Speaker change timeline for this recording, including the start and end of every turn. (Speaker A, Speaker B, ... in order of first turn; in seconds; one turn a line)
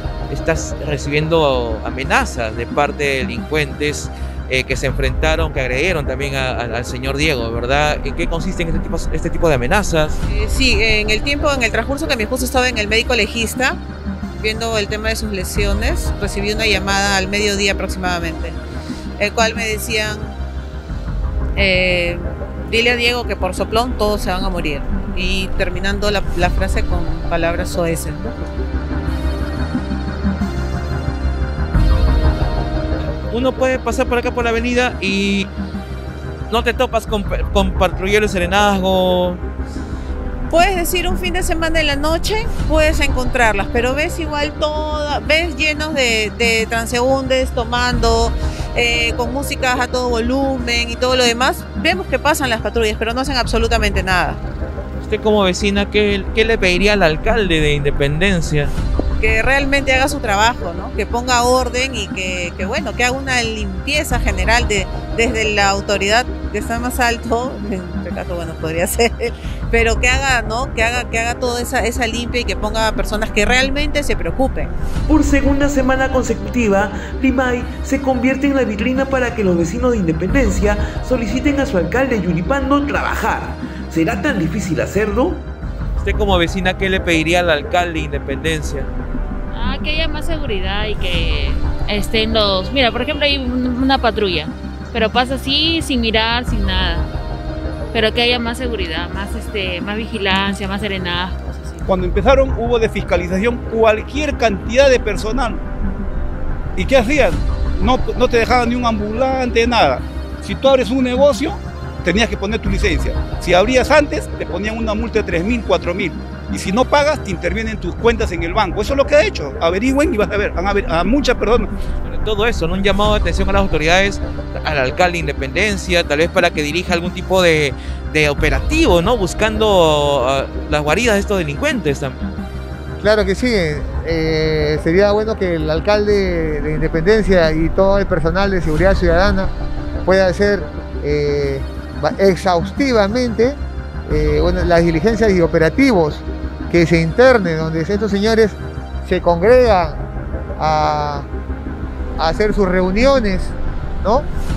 Speaker A: 0.3-10.2
Speaker B: 10.3-13.8
Speaker B: 14.3-18.6
Speaker B: 19.2-20.4
Speaker B: 21.6-28.3
Speaker A: 33.0-35.5
Speaker A: 36.5-39.4
Speaker B: 40.5-54.4
Speaker A: 55.0-58.7
Speaker B: 59.2-74.7
Speaker C: 75.1-85.5
Speaker A: 86.0-88.9
Speaker D: 89.5-97.1
Speaker D: 97.9-101.8
Speaker E: 101.8-105.6
Speaker E: 106.8-121.7
Speaker A: 122.0-132.3
Speaker F: 133.0-139.5
Speaker F: 140.0-150.0
Speaker F: 150.6-151.3
Speaker F: 152.2-154.3